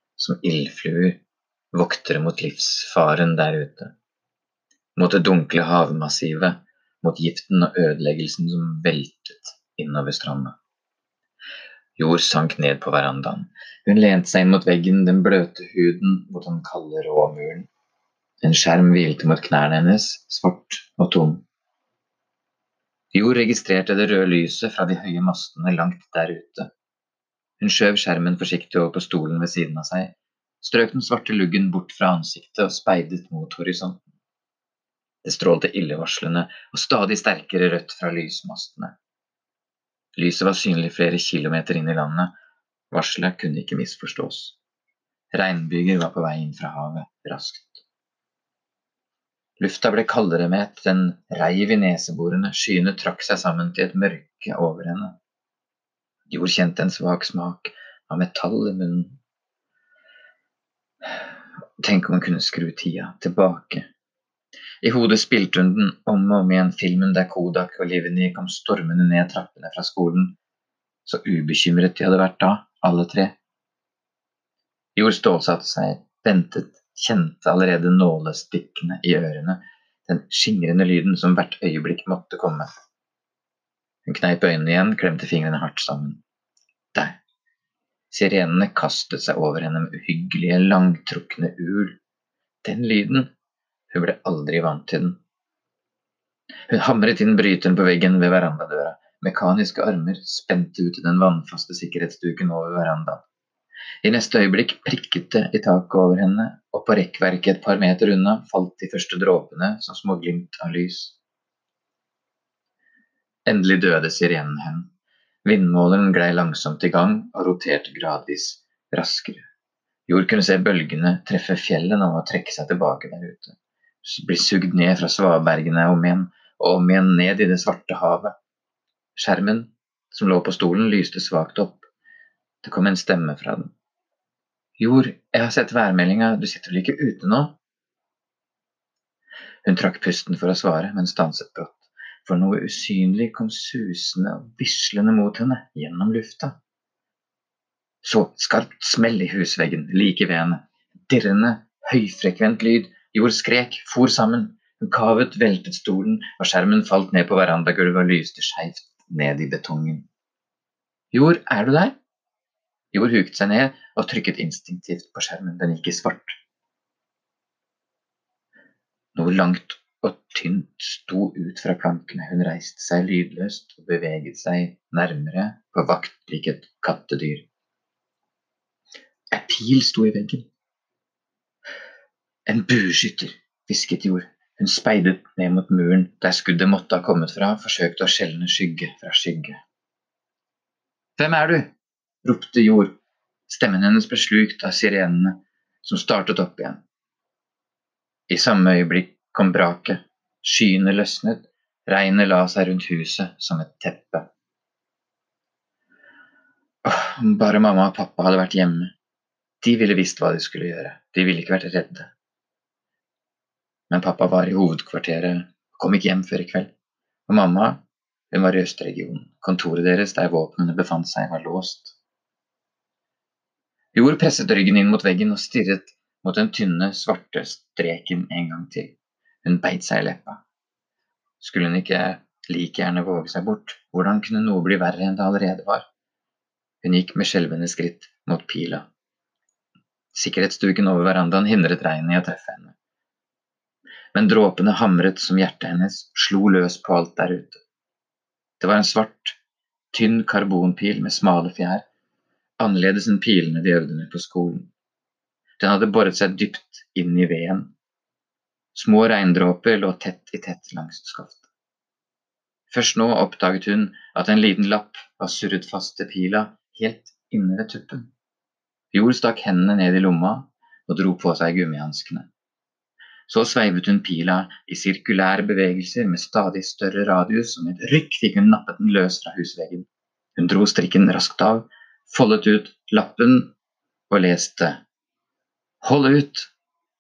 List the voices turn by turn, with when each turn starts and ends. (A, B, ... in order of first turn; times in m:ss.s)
0:00.2-0:01.2 A
0:01.7-0:03.9 A
0:05.0-0:10.6 A
0:12.0-0:17.7 A
0:18.4-0:21.4 A
0:23.1-0:26.7 A
0:27.6-0:34.0 A
0:35.2-0:38.9 A
0:40.1-0:42.3 A
0:42.9-0:44.6 A
0:45.3-0:47.8 A
0:49.6-0:55.2 A
0:56.3-0:59.2 A
1:01.8-1:03.8 A
1:04.8-1:10.4 A
1:11.0-1:13.3 A
1:15.0-1:22.7 A
1:24.1-1:26.2 A
1:26.9-1:27.2 A
1:28.1-1:32.0 A
1:32.6-1:33.3 A
1:33.9-1:35.2 A
1:36.7-1:43.2 A
1:44.0-1:51.2 A
1:53.4-1:54.9 A
1:55.4-1:59.5 A
2:00.1-2:08.3 A
2:09.2-2:11.9 A
2:12.6-2:13.7 A
2:14.8-2:17.6 A
2:19.6-2:26.6 A
2:28.0-2:40.1 A
2:41.1-2:41.9 A
2:42.9-2:46.4 A
2:49.2-2:57.5 A
2:59.3-3:00.5 A
3:02.5-3:09.6 A
3:11.2-3:11.7 A
3:12.2-3:12.9 A
3:13.5-3:16.8 A
3:18.3-3:24.3 A
3:26.8-3:28.9 A
3:29.6-3:32.1 A
3:33.9-3:36.7 A
3:37.3-3:41.9 A
3:43.9-3:50.4 A
3:51.4-3:55.8 A
3:56.8-3:58.8 A
4:00.1-4:02.8 A
4:04.1-4:07.6 A
4:08.6-4:09.4 A
4:09.9-4:11.8 A
4:12.6-4:14.7 A
4:15.6-4:17.7 A
4:18.7-4:21.4 A
4:22.7-4:28.1 A
4:28.9-4:32.3 A
4:33.3-4:43.5 A
4:44.1-4:44.8 A
4:45.8-4:46.5 A